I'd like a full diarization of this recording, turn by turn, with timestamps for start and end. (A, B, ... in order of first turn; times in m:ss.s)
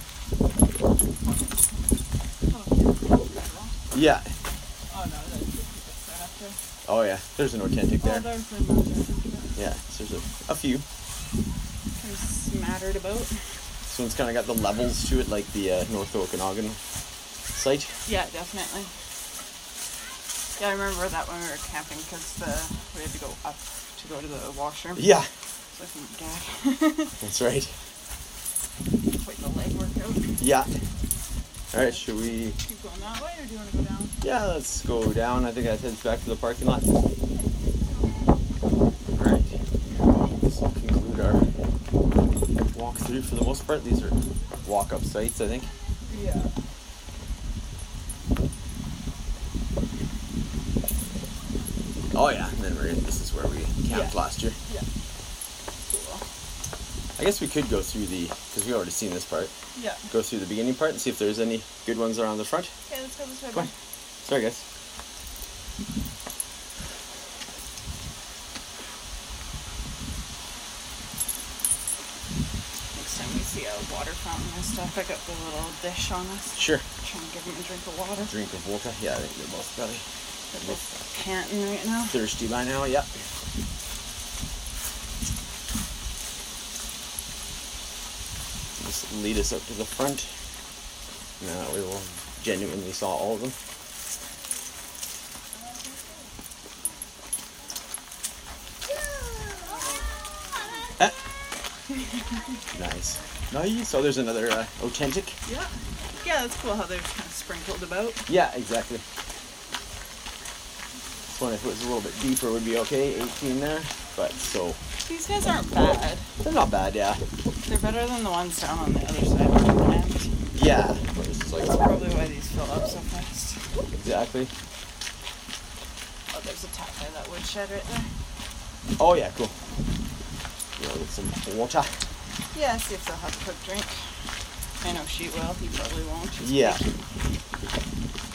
0:01.2-0:03.8 A
0:03.9-0:04.3 B
0:04.9-0:06.6 A
0:06.9-0:08.3 B
0:08.0-0:09.6 A
0:09.6-0:10.8 B
0:12.0-0:13.4 A
0:13.9-0:16.8 B
0:17.5-0:17.9 B
0:18.1-0:18.9 A
0:20.6-0:25.1 A
0:25.0-0:25.3 B
0:25.7-0:27.2 A
0:27.2-0:27.7 B
0:29.1-0:30.4 A
0:30.4-0:30.7 B
0:31.7-0:32.6 B
0:32.6-0:34.2 A
0:34.2-0:36.8 B
0:39.1-0:39.6 B
0:40.4-0:41.4 B
0:42.6-0:45.8 B
0:46.1-0:46.6 A
0:52.1-0:54.6 B
0:53.9-0:54.9 A
0:55.9-0:56.2 A
0:57.2-0:59.5 B
0:59.8-1:00.1 A
1:00.1-1:02.7 B
1:02.9-1:03.7 A
1:04.2-1:04.6 B
1:12.9-1:18.3 A
1:16.6-1:16.9 B
1:18.2-1:20.0 B
1:20.5-1:22.2 A
1:22.1-1:23.1 B
1:28.8-1:30.3 B
1:31.4-1:33.6 B
1:35.5-1:36.3 A
1:39.2-1:40.0 A
1:42.0-1:42.4 A
1:42.7-1:45.4 B
1:45.5-1:48.3 A
1:48.3-1:49.0 B
1:51.3-1:54.8 B
1:55.0-1:56.3 A
1:56.4-1:57.2 B
1:57.7-2:00.3 A
2:00.6-2:01.8 B
2:01.7-2:03.6 A
2:04.0-2:04.5 B
2:06.3-2:08.1 A
2:09.0-2:09.6 B
2:10.8-2:11.9 B
2:12.5-2:14.0 A
2:14.8-2:16.9 A
2:16.4-2:16.8 B